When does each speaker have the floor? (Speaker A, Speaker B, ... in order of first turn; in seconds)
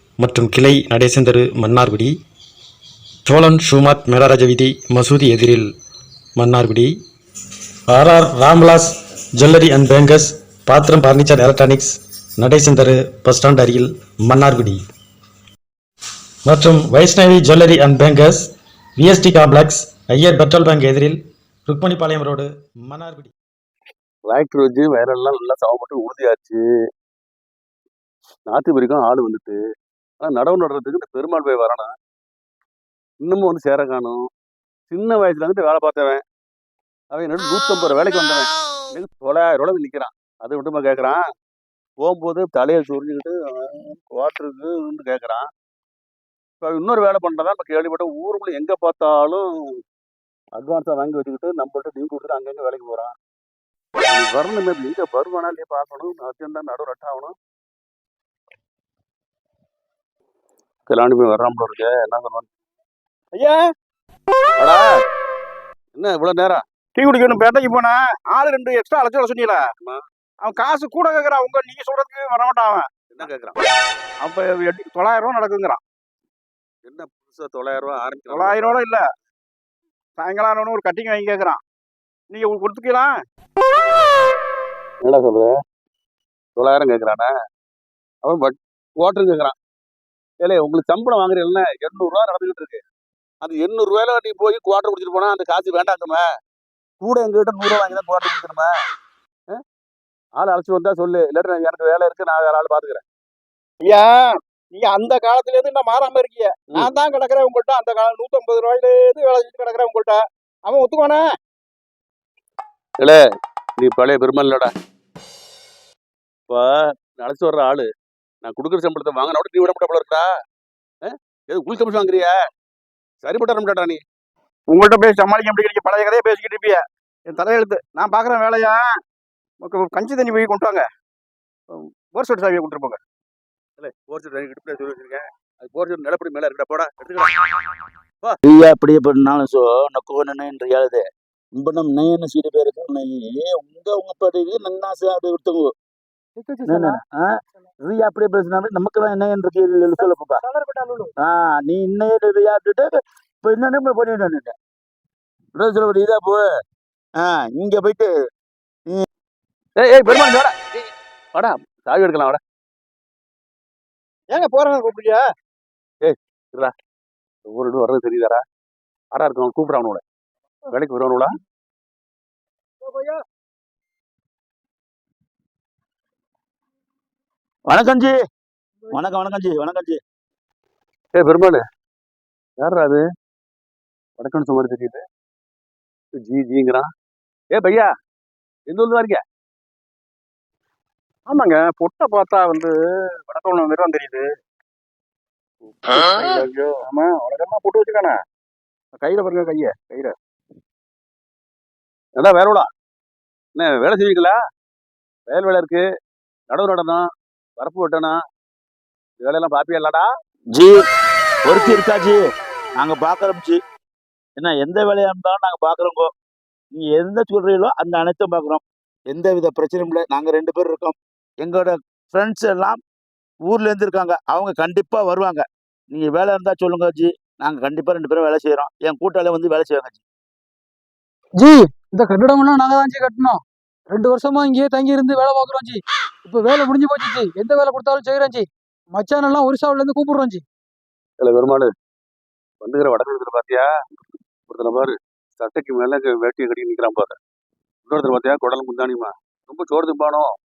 Speaker A: 0.2-2.2, 3.2-5.7, 6.4-7.0, 7.9-14.8, 16.4-23.3
Speaker B: 24.3-26.6, 28.5-29.6, 30.2-31.9, 33.2-34.2, 34.9-36.2, 37.1-41.2, 42.0-45.5, 46.6-49.5, 50.6-53.1, 54.1-57.3, 60.9-62.5, 66.0-66.6, 73.1-73.6, 76.8-78.8, 85.0-85.5, 86.6-87.3, 88.2-89.5, 90.4-92.8, 93.4-96.2, 97.0-98.7, 100.4-103.0, 113.8-114.7, 116.5-117.9, 118.4-120.3, 121.0-122.4, 123.2-124.0, 133.8-137.4, 159.8-160.5, 161.3-162.4, 166.0-166.7, 167.5-168.4, 169.1-170.0, 170.7-171.3, 181.2-181.6, 182.6-183.0, 184.2-185.0, 186.2-186.8, 187.5-187.9, 188.7-189.2, 202.2-202.7, 203.6-204.3, 205.3-205.8, 206.5-207.0, 207.6-208.2, 209.2-210.1, 241.2-241.7, 242.6-243.7, 244.5-247.2, 247.9-250.3
Speaker C: 63.4-63.6, 67.0-69.6, 70.4-73.3, 74.2-75.8, 78.3-79.0, 80.2-81.6, 82.3-83.1, 103.8-104.1, 104.7-111.2, 124.7-128.8, 129.6-130.8, 132.1-133.0, 164.3-165.2, 191.3-192.7, 193.3-194.3, 195.9-198.1, 199.0-200.2
Speaker D: 138.4-141.0, 141.6-145.7, 146.7-147.3, 147.8-150.4, 151.2-152.9, 153.4-154.5, 155.6-156.4, 157.2-158.1, 177.7-178.2, 178.9-180.0, 211.5-212.2, 212.8-213.6, 214.4-216.1, 216.7-222.8, 223.5-230.0
Speaker E: 146.4-147.0, 149.9-151.1, 231.4-240.4